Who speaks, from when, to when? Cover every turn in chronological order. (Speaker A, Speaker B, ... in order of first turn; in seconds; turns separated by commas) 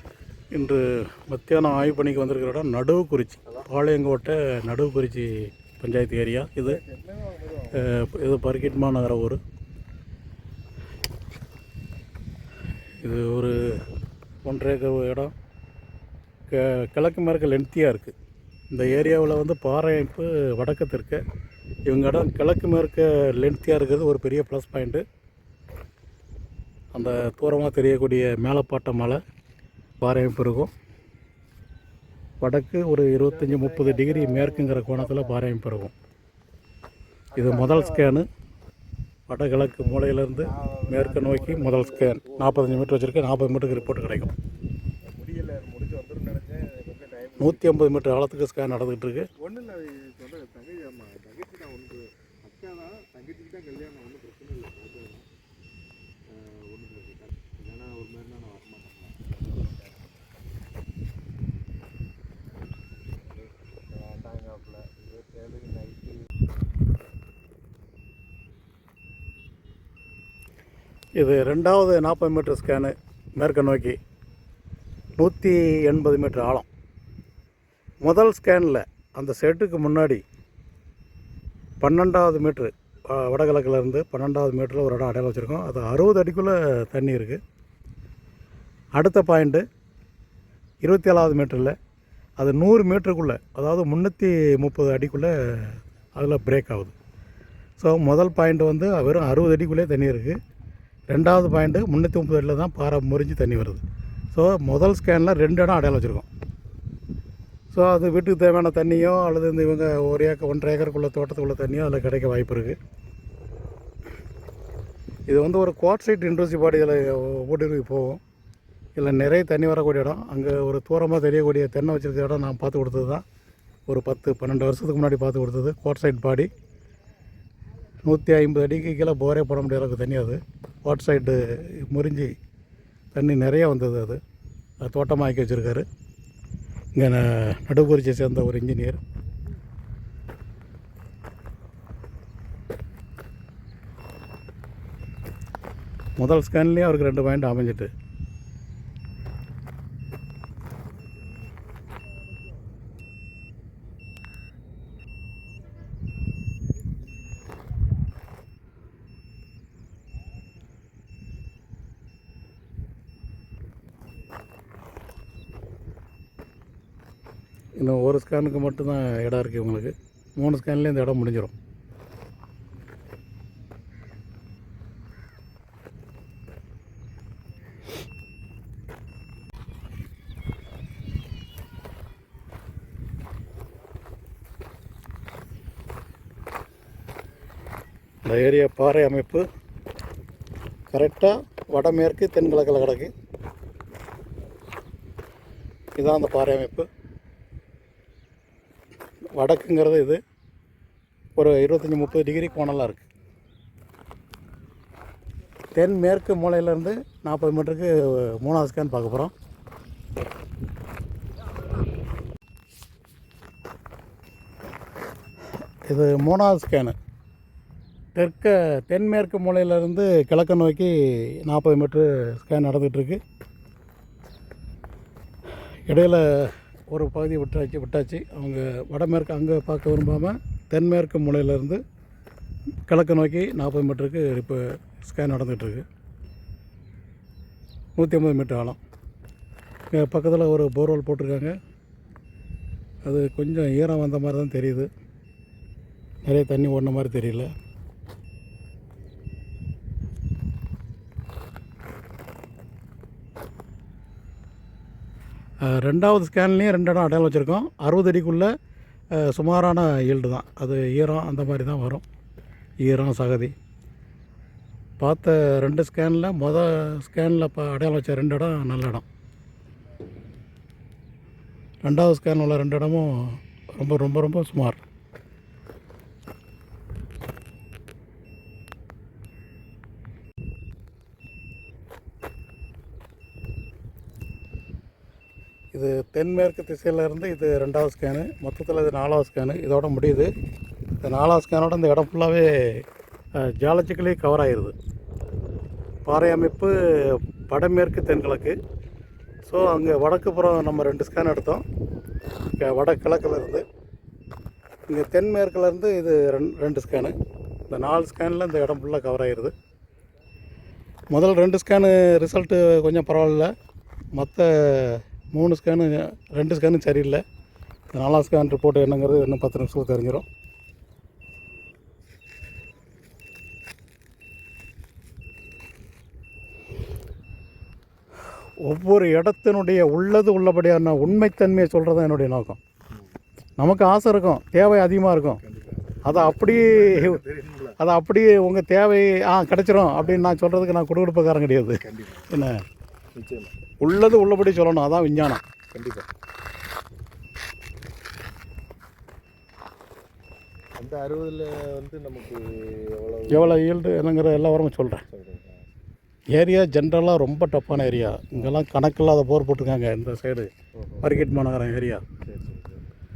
Speaker A: 0.5-6.8, Speaker B: 6.8-7.9, Speaker A: 7.7-9.4, Speaker A: 13.0-13.8, Speaker A: 14.4-15.3, Speaker A: 16.5-18.1, Speaker A: 18.7-21.2, Speaker A: 21.9-25.0, Speaker A: 26.9-29.2, Speaker A: 30.0-30.7, Speaker A: 32.4-35.9, Speaker B: 33.2-35.3, Speaker A: 37.3-38.3, Speaker B: 37.4-38.0, Speaker A: 39.3-44.3, Speaker B: 40.5-44.3, Speaker B: 45.0-47.8, Speaker A: 47.4-49.3, Speaker B: 49.4-55.3, Speaker B: 56.3-60.1, Speaker B: 63.9-66.2, Speaker A: 71.2-74.0, Speaker A: 75.2-76.7, Speaker A: 78.0-80.2, Speaker A: 81.8-87.4, Speaker A: 89.0-89.6, Speaker A: 90.8-91.7, Speaker A: 92.4-96.9, Speaker A: 97.8-100.4, Speaker A: 101.1-106.2, Speaker A: 107.7-112.8, Speaker A: 115.3-118.2, Speaker A: 119.0-123.2, Speaker A: 123.9-126.5, Speaker A: 128.0-132.3, Speaker A: 133.1-134.2, Speaker A: 134.8-135.8, Speaker A: 136.9-139.0, Speaker A: 146.2-147.9, Speaker A: 167.8-171.5, Speaker A: 188.2-189.4, Speaker A: 190.9-193.1, Speaker A: 196.0-196.9, Speaker A: 199.3-200.2, Speaker A: 201.3-203.0, Speaker A: 205.7-209.3, Speaker A: 215.8-216.9, Speaker A: 218.1-223.2, Speaker A: 225.9-231.8, Speaker A: 232.9-235.8, Speaker A: 238.0-238.8, Speaker A: 239.9-241.5, Speaker A: 243.0-244.9, Speaker A: 246.2-247.5, Speaker A: 255.6-258.5, Speaker A: 259.1-262.0, Speaker A: 262.8-263.5, Speaker A: 265.0-269.0, Speaker A: 271.8-274.8, Speaker A: 285.7-290.3, Speaker A: 291.0-292.8, Speaker A: 293.4-294.7, Speaker A: 296.1-298.6, Speaker A: 299.4-301.6, Speaker A: 302.5-303.6, Speaker A: 304.9-307.1, Speaker A: 307.7-309.5, Speaker A: 311.1-313.5, Speaker A: 314.1-317.2, Speaker A: 317.9-320.2, Speaker A: 328.6-332.6, Speaker A: 333.6-335.4, Speaker B: 335.4-337.8, Speaker A: 336.0-337.2, Speaker A: 337.8-342.6, Speaker B: 340.0-340.3, Speaker B: 341.8-342.3, Speaker B: 343.1-343.6, Speaker A: 343.8-345.4, Speaker B: 345.7-346.1, Speaker B: 350.8-353.6, Speaker A: 353.3-355.0, Speaker B: 355.1-355.7, Speaker A: 356.3-360.5, Speaker B: 358.3-358.6, Speaker B: 360.7-361.1, Speaker A: 361.0-362.0, Speaker B: 362.2-362.9